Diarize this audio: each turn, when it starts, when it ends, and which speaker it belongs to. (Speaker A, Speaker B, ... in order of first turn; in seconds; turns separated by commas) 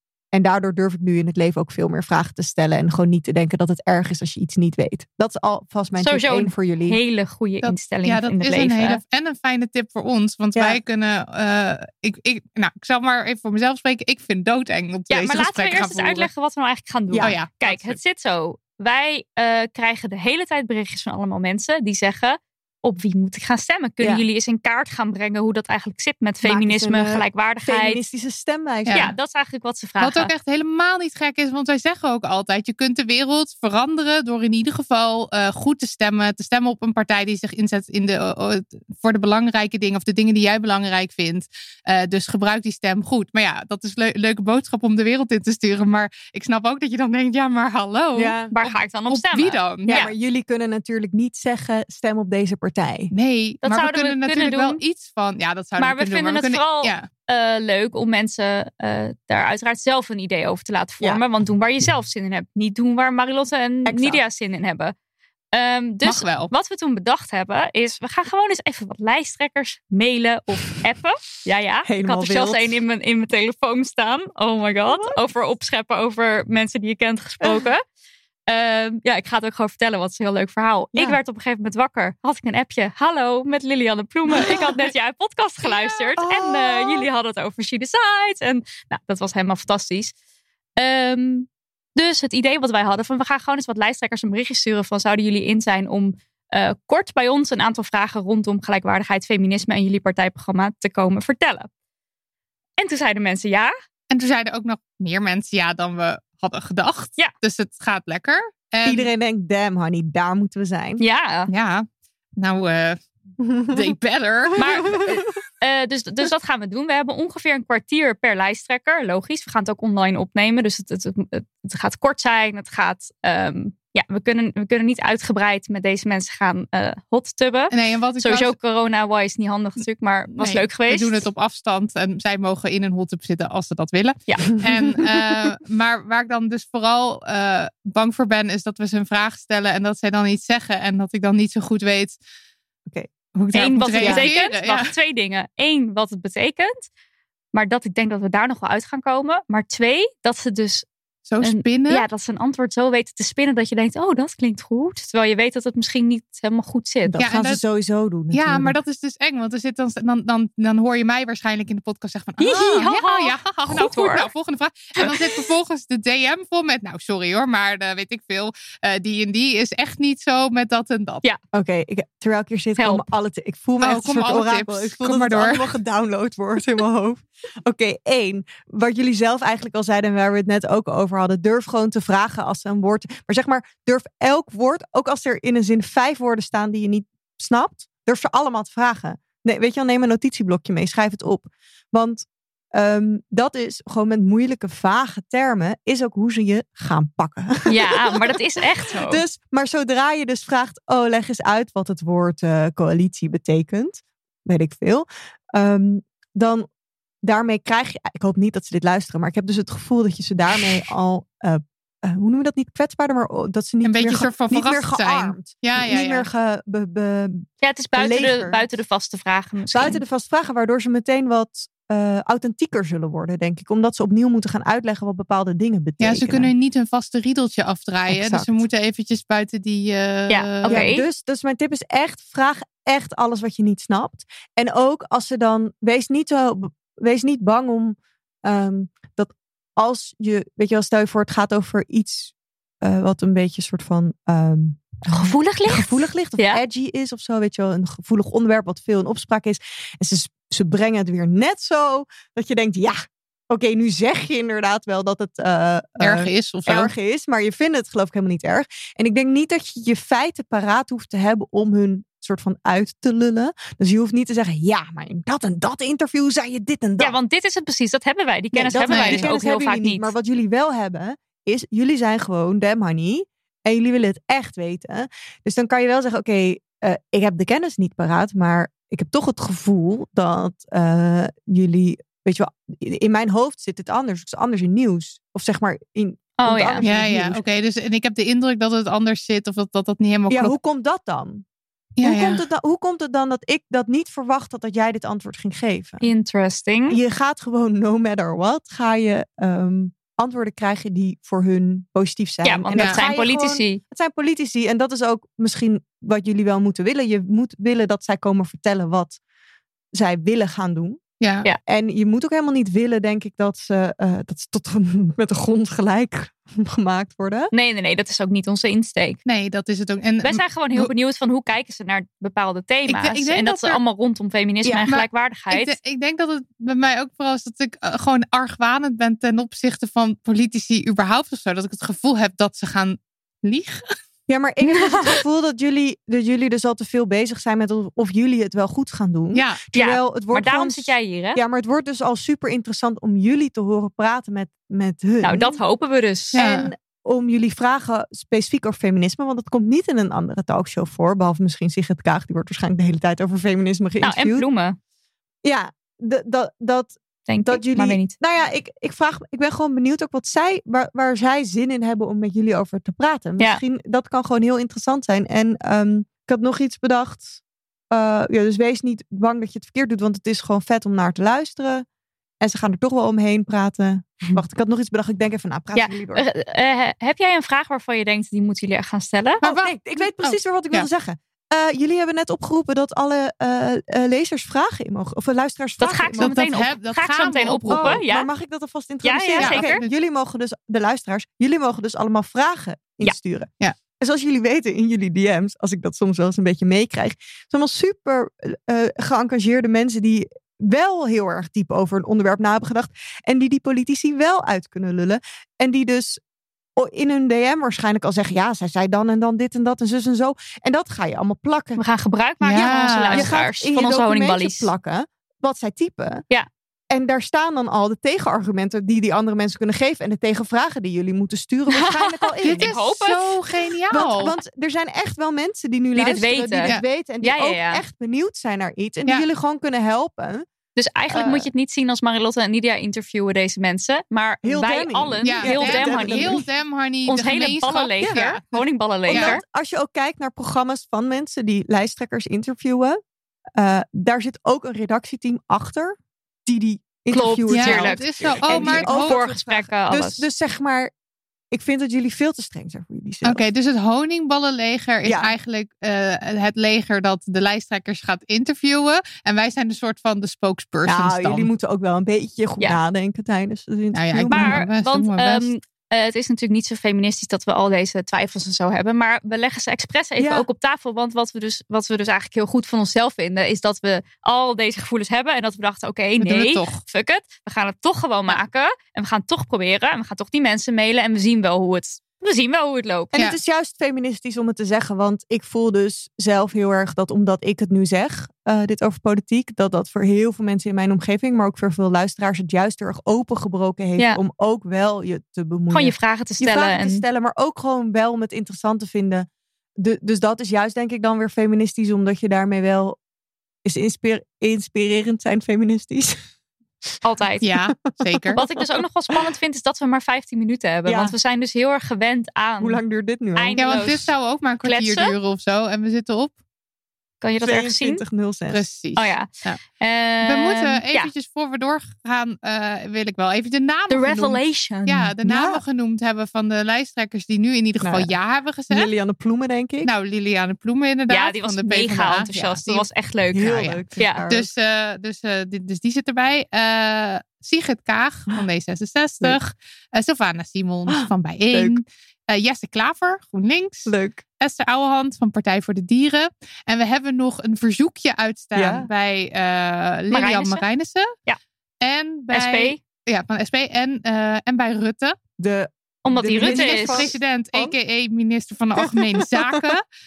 Speaker A: 0.3-7.0, Speaker B: 6.0-9.0, Speaker C: 7.6-16.3, Speaker A: 10.6-10.8, Speaker B: 15.1-28.0, Speaker A: 17.1-17.4, Speaker C: 17.2-18.0, Speaker A: 24.0-24.2, Speaker A: 26.4-29.1, Speaker C: 28.9-29.1, Speaker B: 28.9-30.3, Speaker C: 30.0-50.1, Speaker A: 48.1-48.5, Speaker B: 48.5-50.1, Speaker A: 49.9-53.1, Speaker C: 53.1-57.1, Speaker B: 53.6-54.8, Speaker B: 55.8-65.0, Speaker A: 63.9-64.2, Speaker B: 65.5-77.8, Speaker C: 66.0-66.5, Speaker A: 71.8-72.8, Speaker A: 74.9-75.2, Speaker A: 77.4-77.7, Speaker B: 78.5-90.1, Speaker A: 80.9-81.2, Speaker A: 84.3-84.7, Speaker A: 86.2-87.1, Speaker B: 90.8-101.7, Speaker B: 102.8-103.7, Speaker C: 104.1-109.1, Speaker A: 108.8-111.0, Speaker B: 111.0-111.5, Speaker C: 111.5-113.0, Speaker A: 113.4-113.9, Speaker C: 113.7-115.0, Speaker B: 114.6-131.2, Speaker C: 127.7-128.5, Speaker C: 130.4-142.2, Speaker C: 143.4-144.9, Speaker B: 143.5-146.8, Speaker A: 144.0-144.3, Speaker B: 147.5-150.9, Speaker C: 151.3-152.1, Speaker B: 151.4-157.2, Speaker A: 157.1-158.8, Speaker C: 157.2-157.6, Speaker C: 158.3-171.2, Speaker B: 162.4-164.3, Speaker A: 171.5-198.4, Speaker B: 172.8-173.1, Speaker C: 173.8-175.7, Speaker B: 197.7-199.2, Speaker A: 199.0-206.7, Speaker A: 207.2-218.6, Speaker C: 213.8-216.3, Speaker B: 217.6-220.0, Speaker A: 219.7-226.5, Speaker C: 226.0-230.8, Speaker A: 228.1-228.6, Speaker B: 230.3-231.1, Speaker A: 230.7-267.2, Speaker B: 245.1-246.6, Speaker C: 256.0-256.9, Speaker B: 267.0-270.1, Speaker A: 268.5-287.4, Speaker C: 268.9-269.3, Speaker B: 286.4-286.8, Speaker C: 286.8-290.5, Speaker A: 290.3-291.4, Speaker C: 292.0-292.4, Speaker A: 292.0-296.1, Speaker B: 296.0-297.0, Speaker A: 296.9-309.2, Speaker B: 302.4-303.8, Speaker C: 302.8-303.0, Speaker A: 309.9-311.0, Speaker C: 311.2-311.5, Speaker A: 311.7-317.5, Speaker B: 317.5-319.2, Speaker C: 319.3-320.9, Speaker B: 320.2-325.8, Speaker C: 322.9-323.8, Speaker C: 324.9-333.8, Speaker A: 334.3-345.6, Speaker B: 334.7-335.2, Speaker C: 339.3-339.6, Speaker B: 339.7-341.4, Speaker B: 345.2-346.4, Speaker C: 346.3-346.7, Speaker A: 346.4-354.4, Speaker B: 354.0-354.8, Speaker A: 355.4-367.4, Speaker B: 357.3-358.1, Speaker A: 367.9-371.9, Speaker A: 372.4-376.2, Speaker B: 375.8-379.4, Speaker C: 379.4-380.9, Speaker A: 379.4-386.4, Speaker B: 385.8-388.3, Speaker C: 386.2-388.0, Speaker A: 387.7-406.2, Speaker B: 389.0-389.8, Speaker C: 389.4-389.9, Speaker A: 406.8-411.8, Speaker B: 411.8-414.7, Speaker C: 412.4-413.3, Speaker A: 412.6-416.2, Speaker A: 416.9-422.8, Speaker B: 421.7-423.4, Speaker C: 422.4-424.4, Speaker A: 423.9-430.5, Speaker B: 426.0-427.8, Speaker B: 430.8-436.4, Speaker A: 431.1-431.5, Speaker A: 434.4-436.4, Speaker C: 435.2-438.4, Speaker B: 437.1-439.4, Speaker C: 439.1-439.4, Speaker A: 439.1-443.0, Speaker A: 443.6-450.9, Speaker B: 447.1-450.2, Speaker C: 447.5-449.2, Speaker A: 451.5-453.4, Speaker C: 453.2-461.5, Speaker A: 455.0-455.3, Speaker A: 460.9-464.6, Speaker C: 463.9-465.5, Speaker B: 464.3-483.1, Speaker A: 470.2-470.5, Speaker C: 476.2-476.8, Speaker A: 483.1-499.3, Speaker B: 495.7-497.0, Speaker A: 499.8-503.0, Speaker A: 503.6-506.2, Speaker B: 507.0-507.5, Speaker C: 507.4-508.4, Speaker A: 507.9-509.3, Speaker B: 508.3-512.8, Speaker A: 510.9-511.1, Speaker A: 512.6-513.9, Speaker B: 513.4-514.1, Speaker C: 513.6-516.3, Speaker B: 514.6-515.1, Speaker B: 517.2-518.0, Speaker A: 517.4-518.6, Speaker C: 518.5-519.6, Speaker B: 519.0-521.1, Speaker C: 520.2-528.9, Speaker B: 523.9-525.1, Speaker A: 525.2-525.6, Speaker A: 527.8-528.1, Speaker A: 528.7-529.9, Speaker C: 529.8-532.9, Speaker B: 531.1-534.2, Speaker A: 533.3-534.5, Speaker C: 533.4-533.8, Speaker C: 534.3-551.1, Speaker A: 540.9-541.8, Speaker A: 543.9-544.2, Speaker A: 548.6-548.9, Speaker B: 550.1-550.6, Speaker C: 551.8-555.2, Speaker B: 552.3-552.8, Speaker A: 555.4-557.8, Speaker B: 556.0-557.1, Speaker C: 556.4-559.8, Speaker A: 558.8-559.7